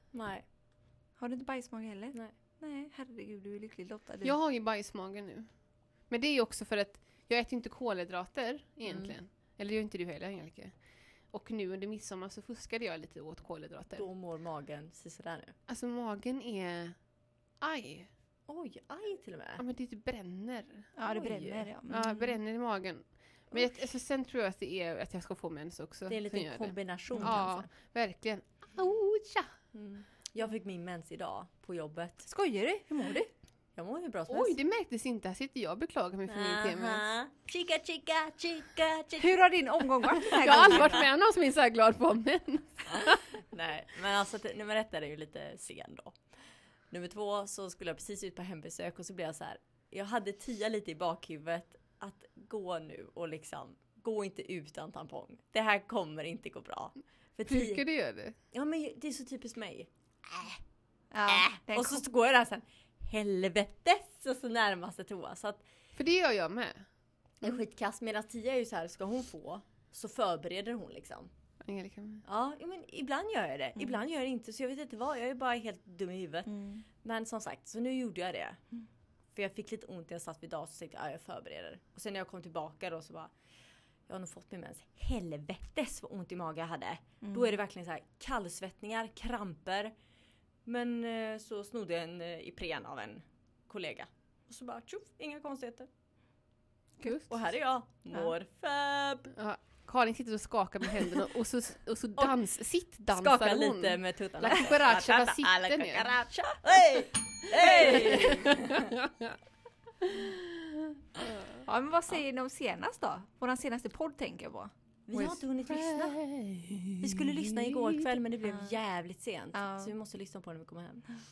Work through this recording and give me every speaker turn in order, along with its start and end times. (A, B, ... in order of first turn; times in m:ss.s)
0:00.1-0:00.4 A
0:01.2-0:04.3 B
0:04.2-0:14.1 C
0:08.8-0:09.2 A
0:13.9-0:15.6 A
0:15.7-0:17.0 C
0:17.6-0:18.1 C
0:18.5-0:19.6 A
0:19.6-0:20.9 C
0:21.0-0:22.3 B
0:21.1-0:21.7 A
0:21.9-0:29.5 C
0:26.1-0:27.7 A
0:27.1-0:27.4 B
0:29.7-0:32.3 A
0:32.2-0:33.3 B
0:33.8-0:34.6 A
0:34.3-0:37.0 C
0:36.3-0:39.4 A
0:39.2-0:41.0 B
0:40.0-0:41.0 A
0:40.2-0:43.2 C
0:42.9-0:46.2 A
0:46.9-0:57.8 A
0:57.5-0:58.4 C
0:58.5-1:00.6 A
1:01.1-1:02.0 B
1:01.3-1:05.6 A
1:06.0-1:06.9 C
1:07.4-1:11.3 A
1:11.6-1:12.2 C
1:12.2-1:18.6 A
1:16.5-1:16.8 B
1:19.3-1:23.3 A
1:24.1-1:29.9 A
1:27.2-1:27.6 B
1:30.6-1:35.9 A
1:37.0-1:37.3 C
1:37.3-1:39.3 A
1:39.3-1:46.1 C
1:43.1-1:48.9 A
1:47.5-1:49.3 C
1:50.0-1:50.8 C
1:51.6-1:54.7 B
1:55.1-1:56.2 A
1:55.1-1:58.2 C
1:57.0-2:01.0 A
1:59.5-1:59.9 B